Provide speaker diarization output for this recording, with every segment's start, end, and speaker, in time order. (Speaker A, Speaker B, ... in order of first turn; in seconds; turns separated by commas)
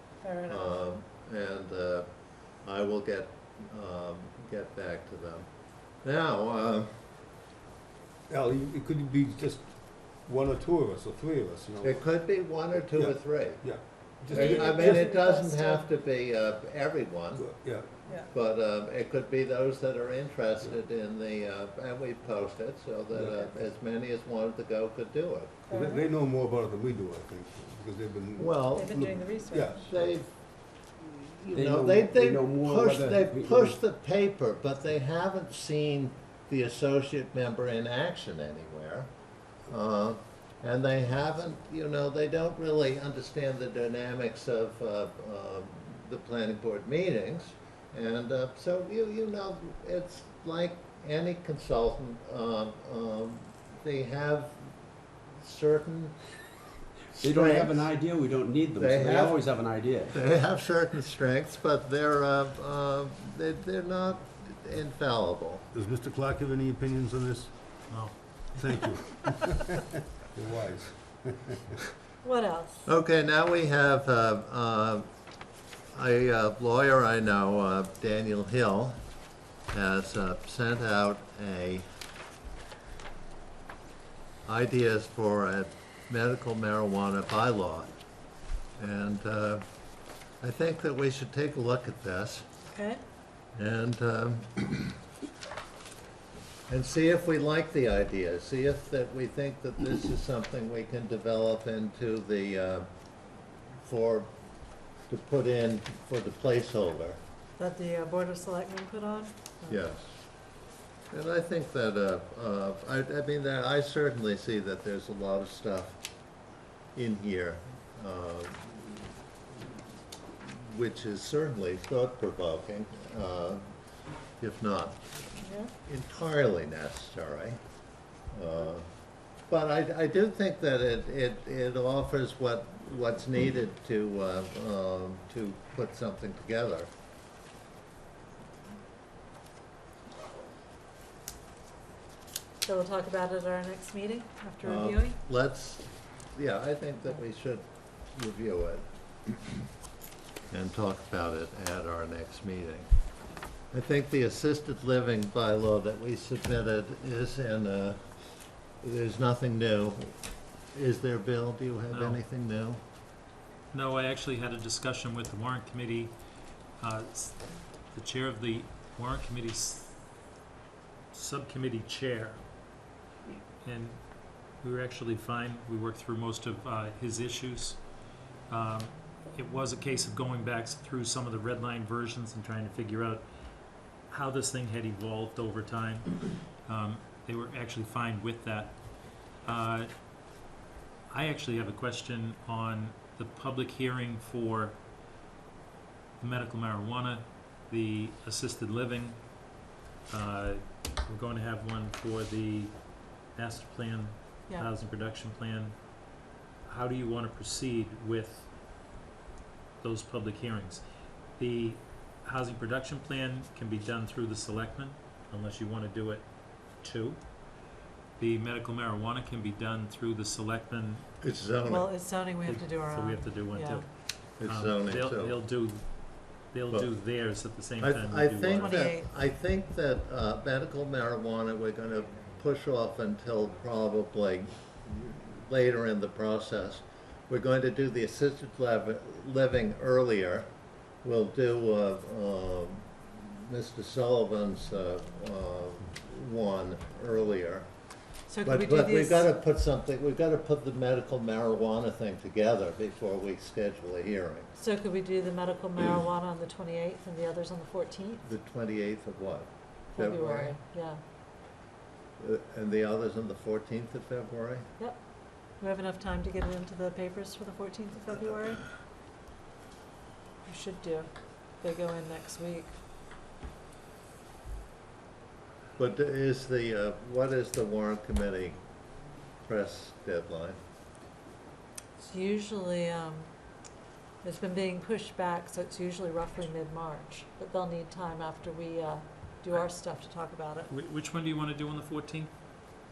Speaker A: 0.2-0.7, Speaker B: 0.5-2.1, Speaker B: 2.6-5.5, Speaker B: 6.0-6.9, Speaker C: 8.3-12.1, Speaker B: 11.8-13.6, Speaker C: 12.9-15.1, Speaker B: 14.3-17.5, Speaker A: 14.3-15.8, Speaker C: 17.4-17.9, Speaker B: 18.3-25.5, Speaker C: 23.1-23.6, Speaker C: 25.7-30.1, Speaker A: 25.7-26.0, Speaker B: 28.4-28.9, Speaker A: 28.7-29.8, Speaker B: 29.8-30.3, Speaker B: 31.0-39.1, Speaker D: 31.5-33.8, Speaker B: 39.7-54.7, Speaker B: 55.4-56.1, Speaker B: 57.1-57.9, Speaker D: 57.2-60.2, Speaker B: 58.8-59.4, Speaker B: 60.1-65.7, Speaker C: 65.7-67.6, Speaker E: 67.9-68.1, Speaker C: 68.5-71.8, Speaker A: 72.2-72.8, Speaker B: 72.9-75.1, Speaker B: 75.9-79.0, Speaker B: 79.7-81.8, Speaker B: 84.5-87.9, Speaker B: 88.8-89.7, Speaker B: 90.4-92.5, Speaker A: 92.7-93.0, Speaker B: 93.5-95.0, Speaker B: 96.7-102.9, Speaker B: 103.8-104.3, Speaker B: 105.1-107.2, Speaker A: 107.6-109.8, Speaker B: 109.7-110.1, Speaker B: 111.1-116.0, Speaker B: 117.0-119.0, Speaker B: 120.4-123.7, Speaker B: 124.4-125.1, Speaker A: 125.4-125.7, Speaker B: 125.8-127.6, Speaker B: 128.3-128.9, Speaker B: 129.5-136.9, Speaker A: 142.7-145.2, Speaker B: 144.6-149.6, Speaker B: 150.5-152.9, Speaker B: 153.7-158.0, Speaker B: 158.8-160.2, Speaker B: 160.7-162.8, Speaker E: 161.9-162.2, Speaker E: 163.7-166.2, Speaker E: 166.8-170.0, Speaker E: 171.1-172.4, Speaker E: 173.6-177.8, Speaker E: 178.5-183.3, Speaker E: 184.1-189.9, Speaker E: 191.1-194.8, Speaker E: 196.2-208.5, Speaker E: 209.8-210.8, Speaker E: 211.4-217.3, Speaker E: 218.2-221.1, Speaker B: 221.2-221.9, Speaker A: 221.7-223.9, Speaker E: 222.4-228.8, Speaker B: 224.4-225.4, Speaker B: 227.8-240.5, Speaker A: 228.6-229.1, Speaker B: 241.0-247.7, Speaker A: 248.3-249.3, Speaker B: 248.4-254.5, Speaker A: 254.6-258.2, Speaker B: 258.2-260.6, Speaker A: 259.9-261.0, Speaker B: 262.2-264.7, Speaker A: 265.6-268.7, Speaker A: 270.5-271.1, Speaker A: 271.6-272.7, Speaker B: 275.8-278.6, Speaker B: 279.4-280.6, Speaker A: 282.0-283.3, Speaker A: 284.2-290.7, Speaker E: 290.7-292.3